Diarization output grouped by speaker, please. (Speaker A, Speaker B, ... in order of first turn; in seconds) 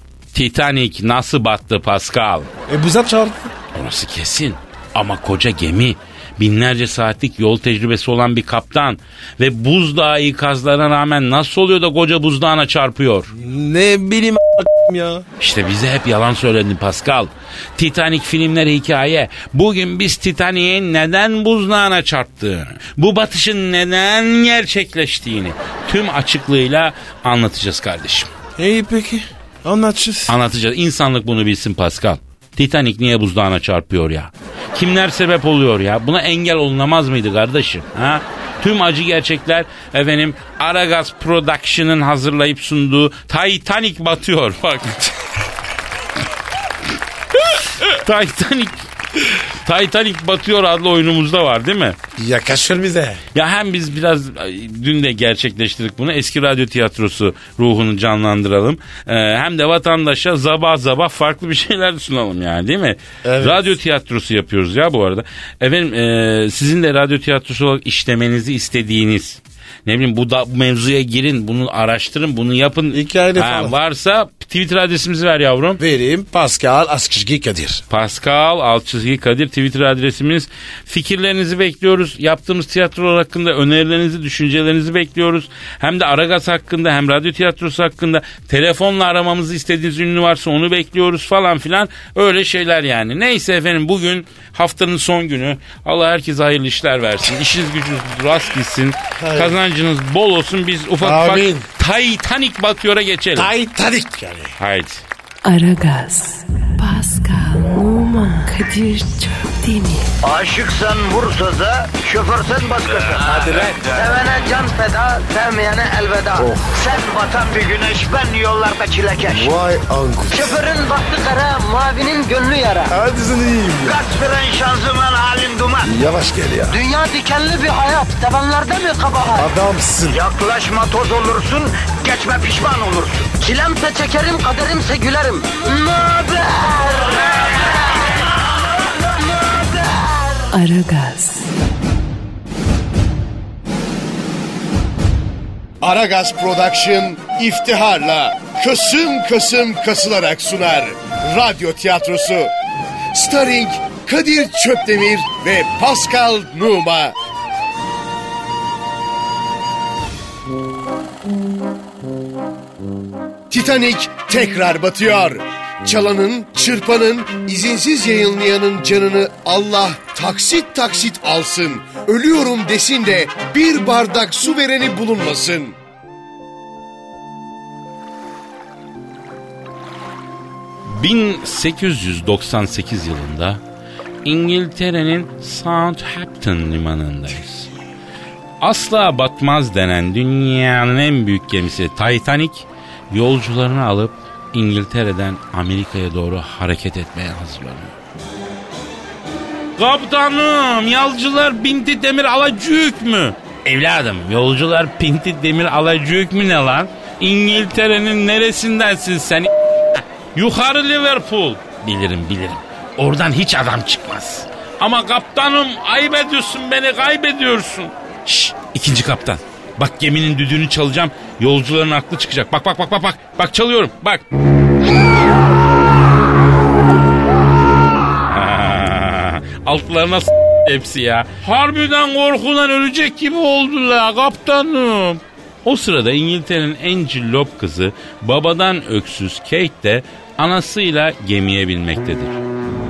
Speaker A: 0.3-2.5, 3.7-13.3, 15.4-28.3, 30.3-45.1, 47.8-48.9, 49.6-52.0, 53.3-75.8, 77.9-103.5, 104.6-105.0, 180.9-183.6, 184.2-187.7, 188.6-197.9, 199.8-209.5, 210.3-224.2, 228.3-242.4
Speaker B: 2.7-3.5, 13.3-15.2, 28.6-30.4, 52.2-53.2, 63.2-63.6, 72.9-73.8, 75.8-77.8, 99.2-99.6, 101.0-101.7, 103.4-104.5, 119.4-120.3, 122.9-124.0, 125.9-126.7, 129.4-130.2
Speaker C: 105.5-110.1, 140.5-141.5
Speaker D: 110.2-119.7, 120.3-122.9, 123.8-126.0, 126.7-129.2, 130.1-137.1
Speaker E: 145.8-152.5, 153.1-157.1, 163.5-175.8